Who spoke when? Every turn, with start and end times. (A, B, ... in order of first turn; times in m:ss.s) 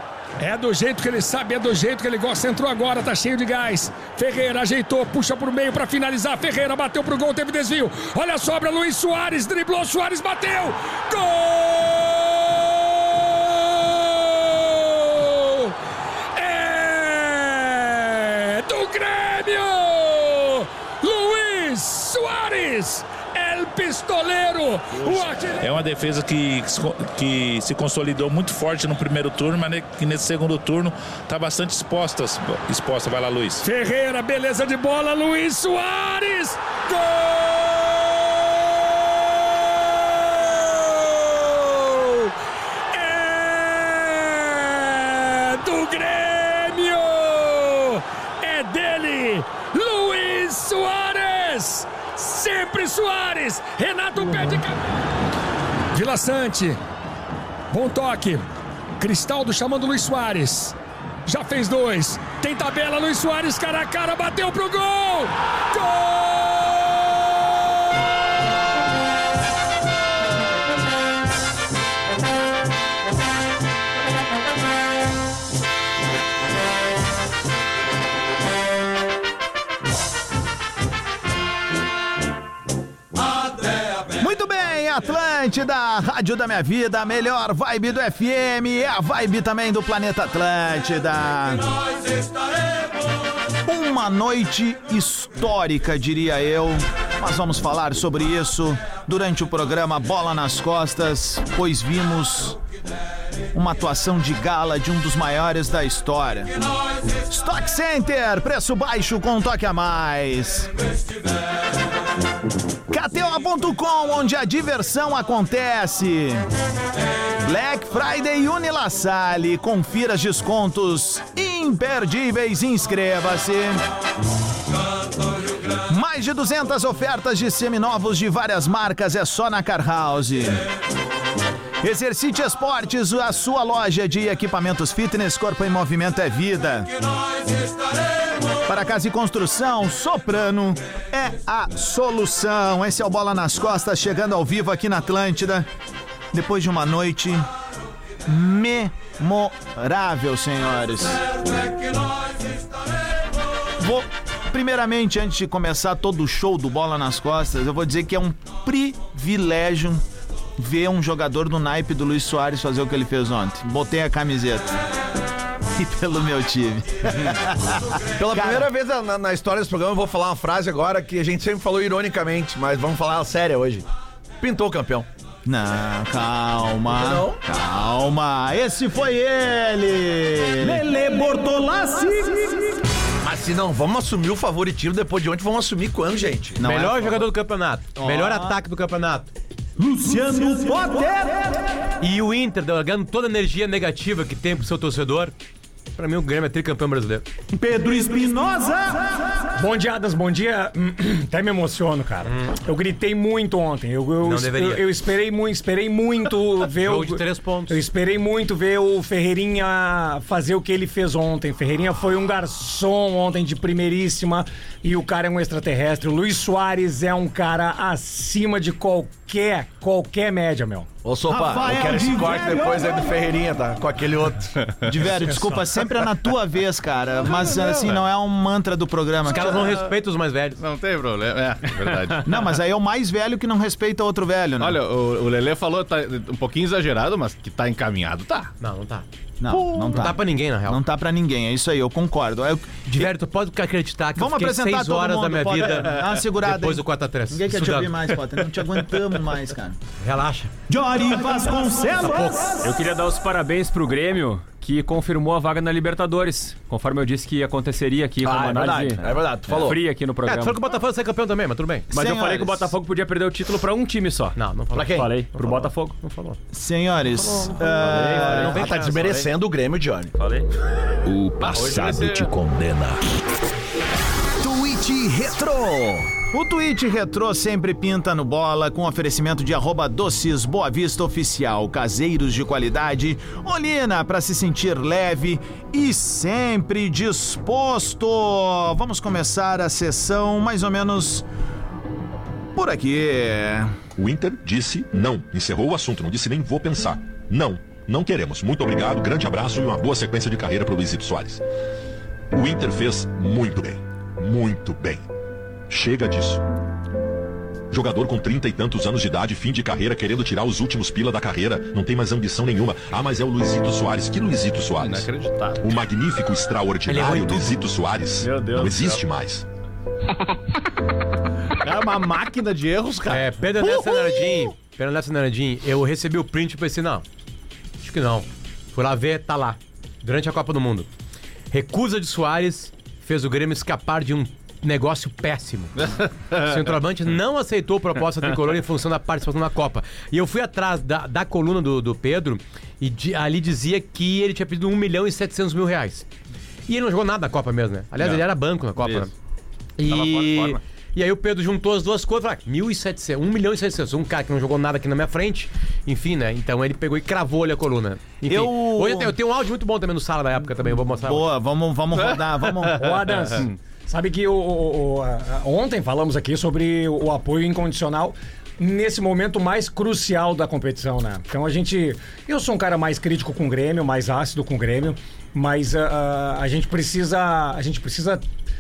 0:00.4-0:15.7 A
0:16.4-0:25.7 A
0:25.0-0:33.6 B
0:33.6-0:42.3 A
0:42.9-0:54.8 A
0:55.9-0:56.8 A
0:57.7-0:58.4 A
0:59.0-1:07.3 A
1:24.2-1:31.6 C
1:33.6-1:42.6 C
1:43.5-1:46.5 C
1:47.2-1:50.7 C
1:52.9-1:56.4 C
1:57.4-2:03.8 C
2:05.8-2:10.7 C
2:11.8-2:16.9 C
2:18.6-2:25.6 C
2:26.3-2:27.5 C
2:28.2-2:31.2 C
2:33.8-2:40.0 C
2:40.6-2:44.8 C
2:45.7-2:48.7 C
2:48.2-2:53.8 D
2:54.4-2:55.0 D
2:55.4-3:02.8 C
2:56.9-2:57.4 D
3:03.2-3:07.2 D
3:06.6-3:06.9 C
3:06.6-3:09.3 E
3:08.0-3:08.6 C
3:09.8-3:11.6 C
3:12.0-3:15.3 E
3:16.0-3:17.2 E
3:17.5-3:19.3 C
3:19.6-3:40.9 F
3:22.2-3:22.5 E
3:24.2-3:24.9 E
3:26.7-3:27.8 E
3:41.0-3:44.5 D
3:41.3-3:43.2 C
3:44.8-3:49.8 C
3:45.2-3:45.6 F
3:47.7-3:48.0 G
3:49.2-3:50.6 E
3:50.6-3:52.5 G
3:52.2-3:54.8 C
3:54.6-3:58.5 G
3:58.6-4:00.8 E
3:59.4-4:03.1 C
4:02.9-4:08.1 E
4:04.2-4:09.8 C
4:10.0-4:10.5 E
4:10.7-4:12.7 C
4:12.0-4:12.5 E
4:12.6-4:20.6 H
4:18.2-4:19.8 D
4:20.2-4:21.9 E
4:21.9-4:22.7 C
4:21.9-4:26.0 H
4:24.4-4:26.4 E
4:24.7-4:25.1 D
4:26.5-4:28.6 C
4:27.8-4:29.2 E
4:27.9-4:30.1 D
4:27.9-4:29.2 H
4:30.2-4:30.5 H
4:31.0-4:33.0 I
4:31.4-4:32.3 G
4:34.4-4:51.3 C
4:35.3-4:36.0 D
4:52.5-4:53.8 C
4:54.0-5:01.4 J
5:02.3-5:05.0 J
5:05.7-5:06.4 J
5:07.7-5:19.4 J
5:14.8-5:15.6 G
5:16.9-5:17.6 E
5:18.2-5:19.0 G
5:21.6-5:23.3 G
5:23.1-5:27.0 E
5:27.8-5:30.9 E
5:31.5-5:46.0 E
5:46.7-5:49.1 E
5:48.8-5:49.1 G
5:49.8-6:01.3 E
5:49.8-5:50.6 G
5:58.2-5:59.2 C
6:01.0-6:03.0 C
6:01.9-6:03.4 G
6:02.8-6:18.2 F